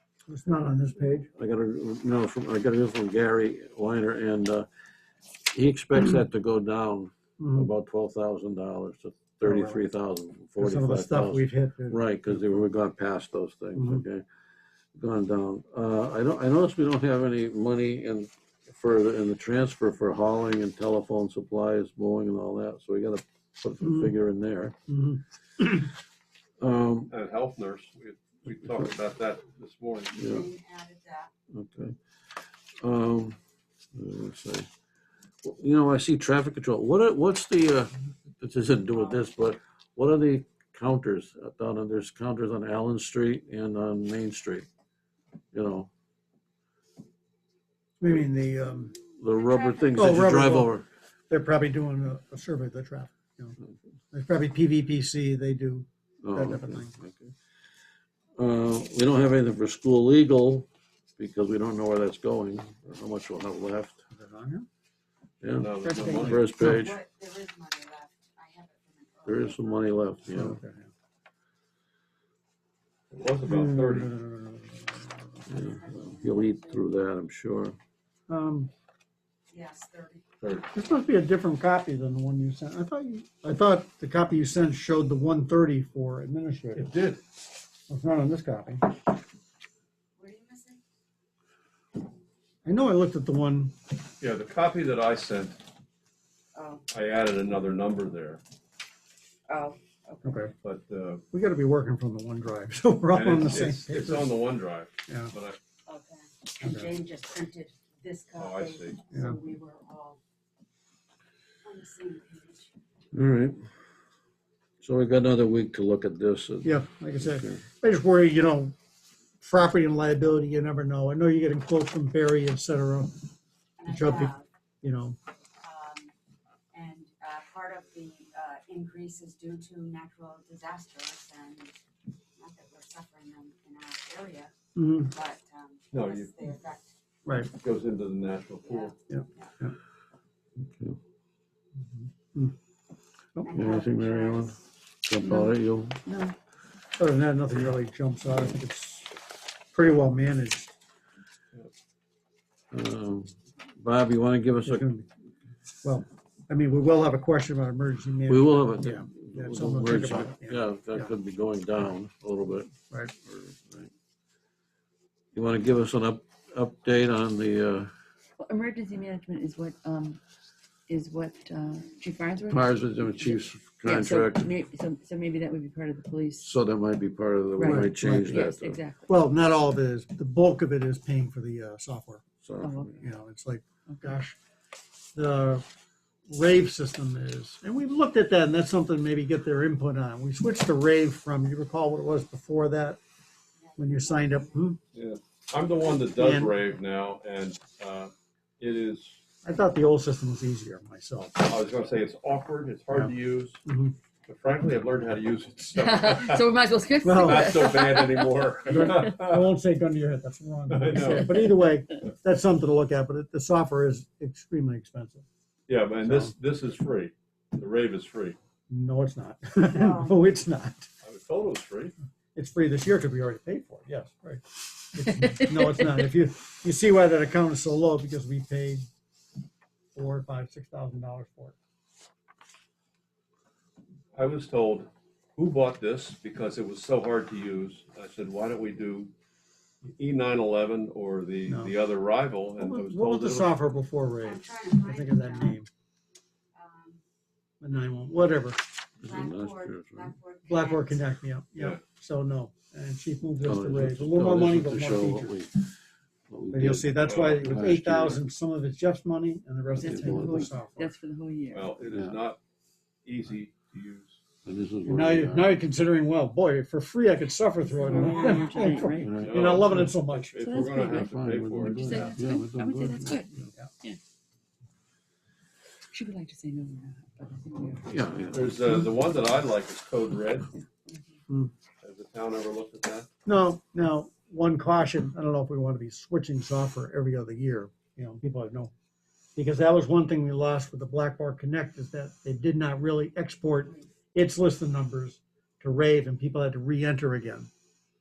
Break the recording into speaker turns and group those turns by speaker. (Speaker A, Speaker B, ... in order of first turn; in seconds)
Speaker A: 0.3-1.3, 7.4-7.7, 9.4-9.8, 10.6-12.5, 13.8-14.0, 23.8-24.1, 24.9-25.9, 48.0-49.0, 49.9-50.8, 51.3-53.6, 54.1-57.0, 64.1-64.7, 66.2-66.8, 70.3-70.9, 73.5-75.6, 78.3-78.7, 80.7-86.9, 87.9-89.0, 92.7-93.7, 100.2-100.5, 101.3-104.3, 105.1-105.3, 106.6-106.9, 109.1-109.4, 116.6-118.7, 119.4-123.1, 123.9-125.2, 134.8-135.1, 137.2-137.5, 139.1-139.7, 141.9-142.6, 146.9-149.2, 149.7-150.7, 154.6-155.1, 155.8-161.1, 177.6-178.4, 179.1-182.2, 183.0-184.4, 185.1-185.7, 186.3-193.0, 193.8-194.8, 196.1-196.6, 199.4-201.4, 203.6-203.9, 207.0-207.8, 208.7-215.2, 216.0-216.3, 218.7-220.9, 222.3-228.8, 229.9-231.5, 241.5-241.7, 242.6-245.7, 247.6-248.6, 250.5-255.3, 256.5-260.9, 264.8-270.5, 283.2-288.7, 289.4-297.5
Speaker B: 1.4-4.7, 5.5-14.2, 14.9-24.8, 26.6-27.1, 30.2-30.5, 31.5-32.0, 32.8-33.4, 33.9-34.7, 35.4-44.7, 45.5-45.9, 49.0-50.9, 56.2-57.3, 58.4-64.0, 65.4-67.0, 69.3-70.6, 75.5-77.8, 113.1-113.6, 114.8-117.6, 140.6-141.0, 143.5-146.0, 152.7-154.8, 158.3-163.9, 165.3-167.9, 172.5-174.5, 176.4-178.8, 182.4-182.9, 249.0-250.1, 253.4-255.7, 256.3-258.2, 259.8-260.4, 261.9-262.2, 264.4-265.6, 269.0-269.9, 270.9-273.5, 277.9-278.6
Speaker C: 27.1-30.2, 65.6-66.5, 73.1-74.1, 80.4-80.7, 86.8-87.2, 94.2-95.6, 96.9-98.4, 100.6-101.2, 103.1-105.6, 108.4-109.0, 135.9-136.4, 137.5-138.9, 194.9-199.2, 201.4-203.6, 204.2-206.5, 207.1-209.5, 210.7-211.4, 215.7-218.4, 221.0-221.9, 234.1-239.1, 239.8-243.5, 257.0-257.7, 261.5-262.4, 263.0-264.2, 269.2-272.2, 278.3-280.5, 281.8-283.1
Speaker D: 30.1-31.3, 49.3-50.1, 66.5-70.0, 75.5-76.9, 79.5-80.2, 90.2-90.8, 96.5-96.9, 99.5-100.5, 105.9-110.2, 111.6-112.7, 123.8-124.5, 125.6-126.1, 126.7-131.7, 132.4-136.9, 138.6-139.5, 143.4-144.6, 193.6-194.7, 219.7-220.2, 244.2-245.6, 246.5-247.0, 249.0-251.0
Speaker E: 65.8-66.7, 145.2-146.3, 168.4-170.2, 170.9-176.5, 177.6-179.1, 182.6-183.0, 205.7-209.1, 211.0-211.5, 259.8-261.7, 267.6-269.2, 270.3-274.0, 275.9-278.5, 280.6-281.0